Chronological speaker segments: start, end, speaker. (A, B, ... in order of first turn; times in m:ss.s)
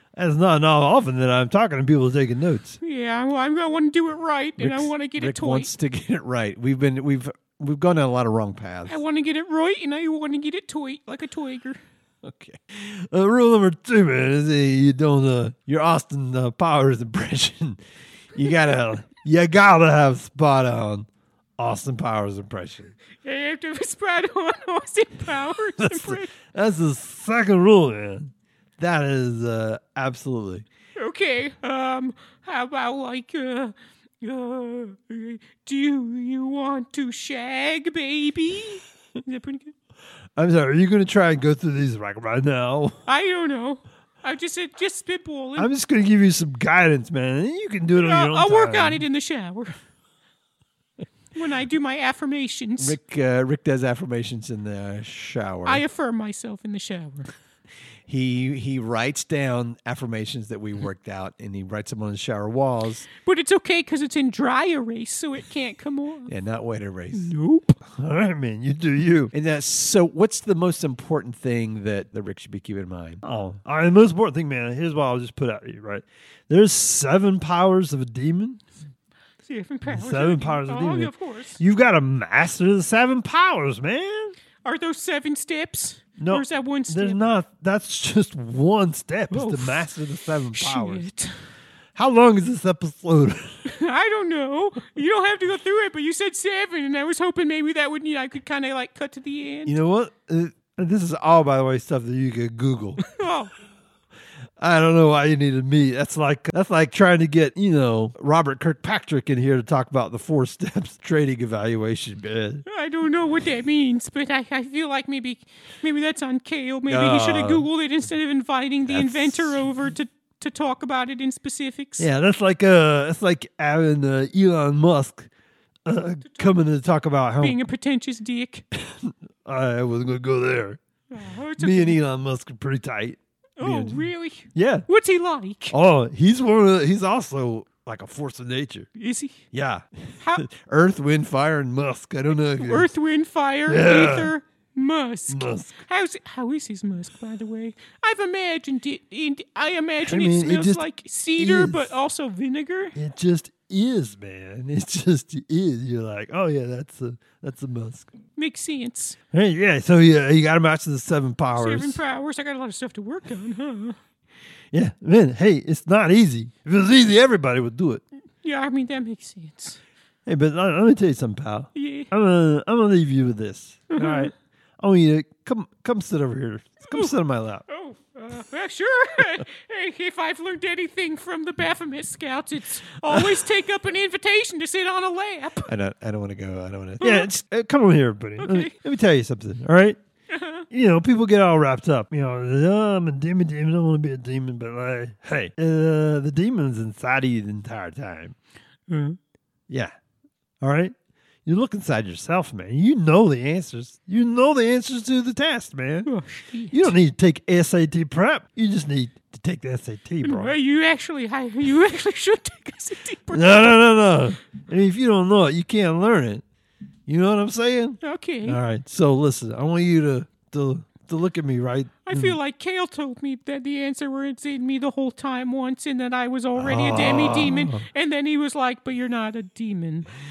0:00.2-0:02.8 A
0:02.8-0:05.7 B
0:04.6-0:09.0 C
0:08.9-0:11.8 B
0:12.2-0:12.6 C
0:12.8-0:15.6 A
0:15.7-0:17.8 C
0:16.4-0:17.0 A
0:18.4-0:19.1 C
0:19.0-0:21.1 A
0:21.6-0:22.9 A
0:23.2-0:26.3 B
0:25.8-0:30.6 A
0:31.0-0:39.7 B
0:40.4-0:43.0 A
0:43.1-0:45.7 B
0:45.6-0:49.0 A
0:48.0-0:49.8 B
0:51.3-0:53.0 B
0:52.8-0:55.8 C
0:55.6-0:57.3 B
0:58.1-1:03.1 C
1:03.2-1:06.3 B
1:06.3-1:07.3 C
1:07.1-1:07.8 B
1:07.9-1:09.3 A
1:09.3-1:13.2 C
1:13.2-1:18.6 A
1:19.4-1:21.6 B
1:19.9-1:24.4 A
1:24.6-1:27.2 B
1:26.2-1:31.1 A
1:29.3-1:29.9 B
1:30.5-1:31.4 B
1:32.0-1:33.6 A
1:33.6-1:39.8 B
1:39.7-1:43.0 A
1:43.0-1:43.5 B
1:44.6-1:52.6 A
1:52.7-2:02.1 B
1:56.9-1:57.7 A
2:02.0-2:05.3 A
2:05.9-2:07.6 A
2:06.2-2:06.6 B
2:07.4-2:08.6 B
2:08.7-2:10.8 A
2:11.1-2:12.0 B
2:11.6-2:13.8 A
2:13.6-2:15.8 B
2:14.6-2:14.9 A
2:15.7-2:18.9 A
2:19.0-2:19.4 B
2:19.5-2:19.8 A
2:20.2-2:20.5 B
2:20.5-2:21.7 C
2:21.7-2:22.9 A
2:22.6-2:33.0 B
2:23.7-2:24.3 A
2:25.3-2:25.8 A
2:30.0-2:30.8 A
2:31.4-2:32.0 A
2:33.0-2:38.1 A
2:38.4-2:39.2 B
2:39.3-2:42.0 A
2:41.6-2:44.0 B
2:44.7-2:48.0 A
2:48.4-2:49.8 B
2:50.3-2:57.6 A
2:51.8-2:52.1 B
2:53.9-2:54.3 B
2:57.7-3:05.7 B
3:05.7-3:07.2 C
3:07.0-3:07.3 B
3:07.0-3:10.0 A
3:08.4-3:08.8 B
3:10.3-3:10.7 B
3:10.7-3:18.4 A
3:18.9-3:19.2 B
3:20.6-3:20.9 A
3:21.5-3:26.1 A
3:26.0-3:27.0 B
3:26.7-3:30.6 A
3:30.2-3:33.7 B
3:33.3-3:36.4 A
3:37.1-3:42.4 A
3:38.0-3:38.6 B
3:42.1-3:50.1 B
3:46.6-3:47.8 A